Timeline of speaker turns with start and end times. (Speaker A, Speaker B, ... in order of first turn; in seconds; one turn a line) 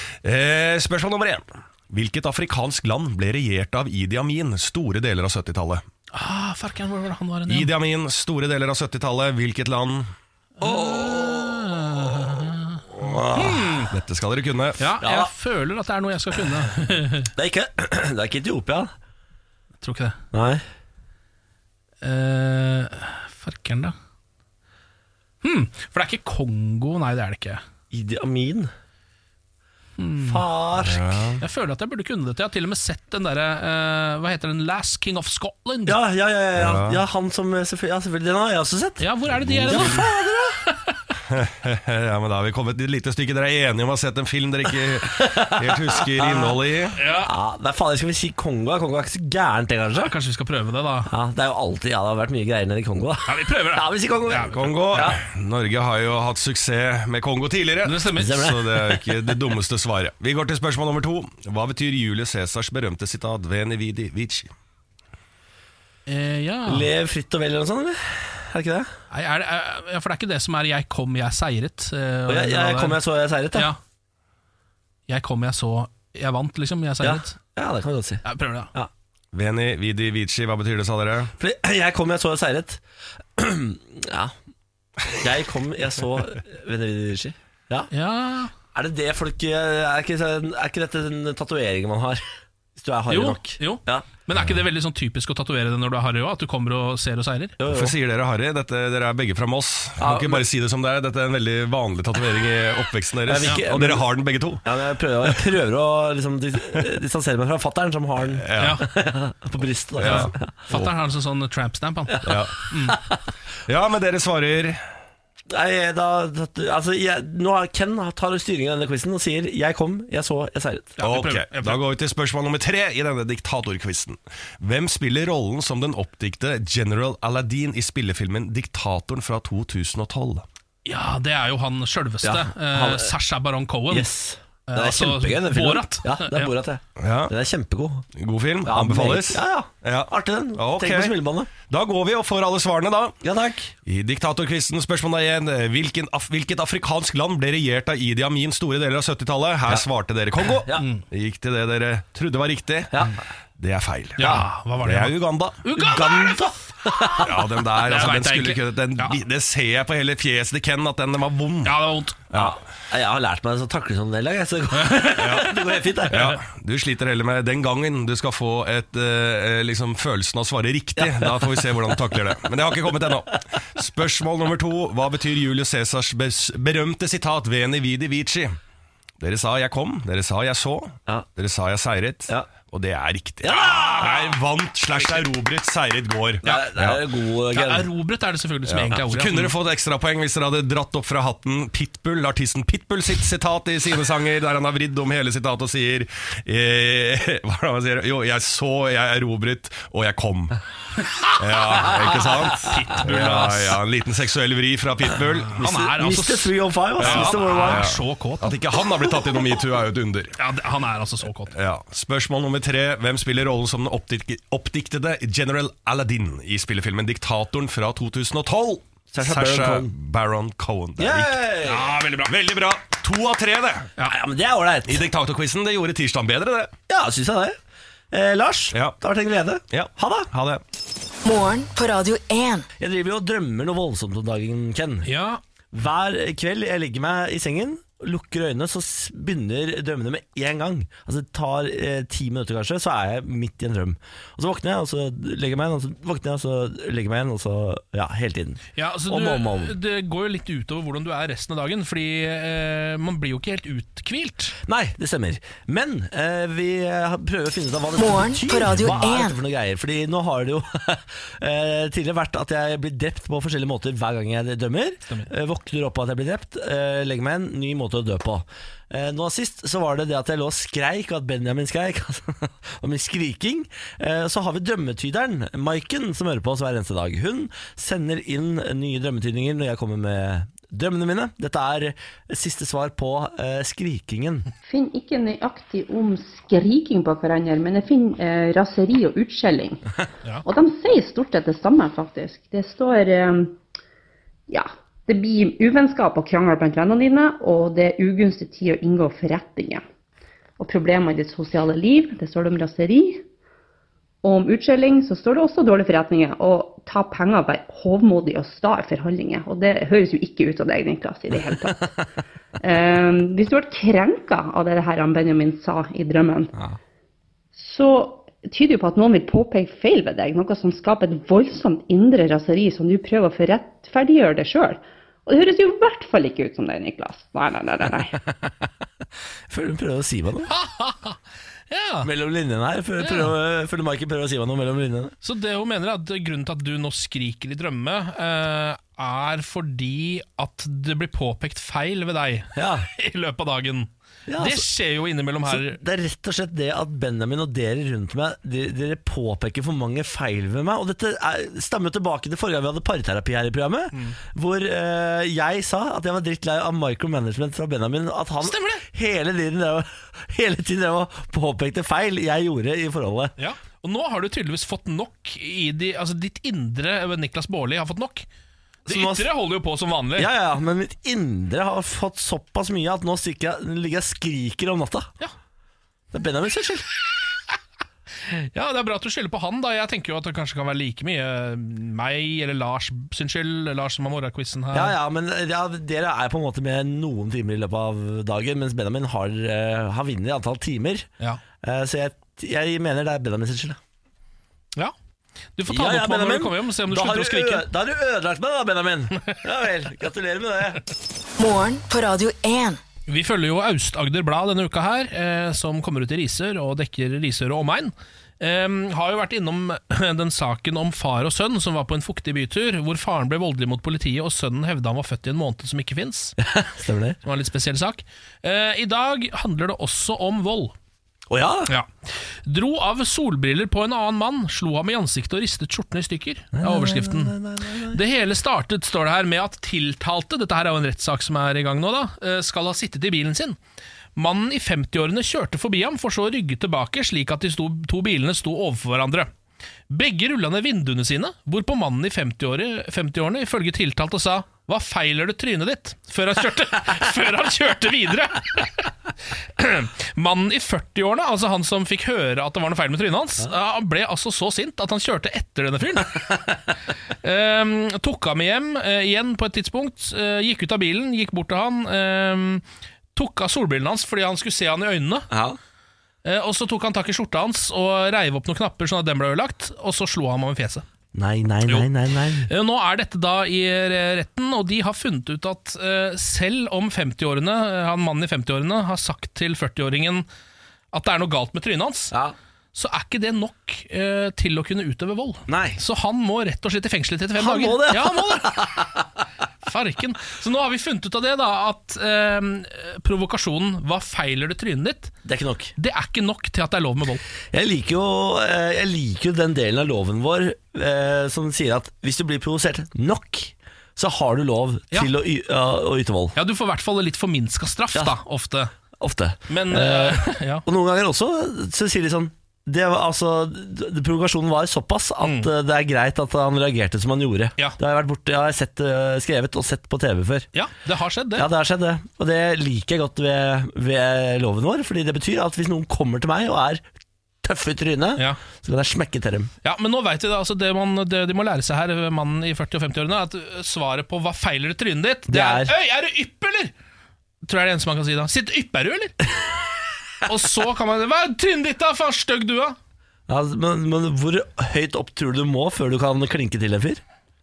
Speaker A: 0.2-5.8
Speaker B: 6.1-7.7
Speaker A: 7.5-10.1
Speaker B: 10.6-12.8
Speaker C: 10.6-10.9
Speaker C: 13.0-13.8
Speaker B: 13.3-13.9
Speaker A: 13.9-14.9
Speaker B: 14.8-17.3
Speaker C: 15.0-15.3
Speaker C: 17.4-18.9
Speaker B: 19.8-20.2
Speaker C: 20.3-20.6
Speaker B: 22.0-23.9
Speaker B: 25.4-27.6
Speaker C: 27.9-28.7
Speaker B: 30.0-30.4
Speaker C: 30.2-31.4
Speaker A: 30.8-31.4
Speaker B: 31.4-36.0
Speaker C: 35.9-40.6
Speaker A: 36.6-37.0
Speaker B: 39.0-41.0
Speaker A: 39.3-40.1
Speaker A: 41.3-47.0
Speaker C: 45.0-46.6
Speaker B: 47.0-47.3
Speaker C: 47.2-50.1
Speaker B: 50.0-51.1
Speaker C: 51.1-55.2
Speaker B: 53.3-55.1
Speaker A: 54.4-64.5
Speaker B: 57.8-58.5
Speaker C: 58.1-58.9
Speaker B: 66.1-66.9
Speaker C: 66.7-68.9
Speaker B: 69.1-73.0
Speaker C: 72.3-73.7
Speaker B: 75.1-77.4
Speaker C: 77.0-78.9
Speaker B: 78.2-78.7
Speaker A: 79.3-81.3
Speaker C: 81.4-82.8
Speaker C: 83.4-84.3
Speaker C: 85.1-87.9
Speaker B: 87.9-88.5
Speaker C: 88.7-94.1
Speaker B: 93.1-97.6
Speaker C: 97.6-98.0
Speaker A: 97.6-104.6
Speaker C: 100.0-100.5
Speaker C: 103.3-104.1
Speaker C: 104.6-110.5
Speaker A: 108.4-108.8
Speaker B: 108.6-108.9
Speaker A: 110.0-110.9
Speaker B: 110.0-113.0
Speaker C: 112.2-113.0
Speaker A: 112.2-112.6
Speaker A: 113.7-114.8
Speaker C: 115.5-121.0
Speaker B: 121.0-121.8
Speaker A: 121.0-130.5
Speaker B: 130.8-134.1
Speaker C: 132.2-133.1
Speaker C: 133.9-138.1
Speaker B: 134.7-136.5
Speaker A: 137.0-137.3
Speaker A: 138.2-143.2
Speaker C: 138.7-141.5
Speaker C: 143.2-143.7
Speaker A: 143.9-155.6
Speaker C: 150.4-150.9
Speaker C: 152.9-153.2
Speaker B: 154.2-156.4
Speaker C: 155.7-157.5
Speaker A: 157.2-162.6
Speaker B: 157.7-159.2
Speaker B: 161.6-162.3
Speaker C: 162.3-166.4
Speaker B: 164.7-166.4
Speaker A: 165.2-165.5
Speaker A: 166.1-178.6
Speaker C: 171.0-171.8
Speaker A: 179.2-187.0
Speaker C: 183.4-184.3
Speaker B: 186.4-186.8
Speaker C: 186.4-187.9
Speaker B: 187.5-189.6
Speaker A: 188.7-200.6
Speaker A: 201.4-205.6
Speaker B: 202.6-203.8
Speaker B: 205.5-208.6
Speaker C: 205.6-207.9
Speaker A: 207.0-210.4
Speaker B: 210.4-211.5
Speaker A: 211.5-221.4
Speaker C: 219.1-219.9
Speaker C: 221.0-222.0
Speaker B: 221.7-222.3
Speaker A: 222.2-223.9
Speaker C: 224.0-225.1
Speaker A: 224.9-226.7
Speaker C: 226.9-227.6
Speaker C: 228.1-230.3
Speaker A: 229.7-230.6
Speaker D: 231.2-232.7
Speaker C: 232.8-235.1
Speaker B: 235.1-235.4
Speaker C: 235.7-249.8
Speaker B: 248.8-254.6
Speaker C: 254.7-284.5
Speaker D: 258.0-259.4
Speaker E: 284.7-289.8
Speaker E: 290.4-293.6
Speaker E: 294.5-299.8
Speaker E: 300.6-303.3
Speaker E: 304.2-311.9
Speaker E: 312.6-316.5
Speaker E: 317.6-328.2
Speaker C: 329.5-330.5
Speaker B: 330.5-331.2
Speaker B: 331.7-332.1
Speaker C: 332.0-335.1
Speaker B: 333.0-333.3
Speaker B: 335.2-345.8
Speaker C: 342.6-342.9
Speaker C: 344.3-344.6
Speaker C: 345.5-363.4
Speaker B: 358.4-358.9
Speaker B: 363.4-368.3
Speaker B: 368.9-370.3
Speaker C: 368.9-369.3
Speaker C: 370.2-375.1
Speaker C: 376.1-376.9
Speaker B: 378.3-384.9
Speaker C: 384.7-391.1
Speaker C: 391.6-393.8
Speaker B: 395.6-397.7
Speaker C: 395.7-400.8
Speaker D: 401.4-402.8
Speaker B: 403.1-416.4
Speaker C: 416.4-417.2
Speaker B: 417.2-420.7
Speaker C: 421.3-421.7
Speaker B: 422.4-427.4
Speaker C: 426.6-428.0
Speaker B: 427.9-433.6
Speaker B: 434.2-439.3
Speaker B: 439.9-448.9
Speaker B: 449.6-456.6
Speaker B: 457.2-462.6
Speaker B: 463.1-465.3
Speaker C: 465.3-465.6
Speaker B: 466.2-470.9
Speaker C: 471.1-472.5
Speaker B: 472.4-480.3
Speaker B: 480.9-482.1
Speaker B: 482.7-488.9
Speaker C: 485.5-485.8
Speaker C: 487.4-489.0
Speaker B: 489.6-495.1
Speaker C: 495.2-495.7
Speaker B: 495.8-497.2
Speaker C: 497.5-506.4
Speaker B: 506.4-508.7
Speaker C: 509.0-520.5
Speaker B: 509.5-510.6
Speaker B: 515.2-515.5
Speaker B: 520.5-521.5
Speaker C: 521.4-526.8
Speaker C: 527.4-529.5
Speaker B: 529.6-536.7
Speaker C: 535.3-535.7
Speaker B: 537.4-539.1
Speaker B: 540.2-542.8
Speaker C: 543.3-547.0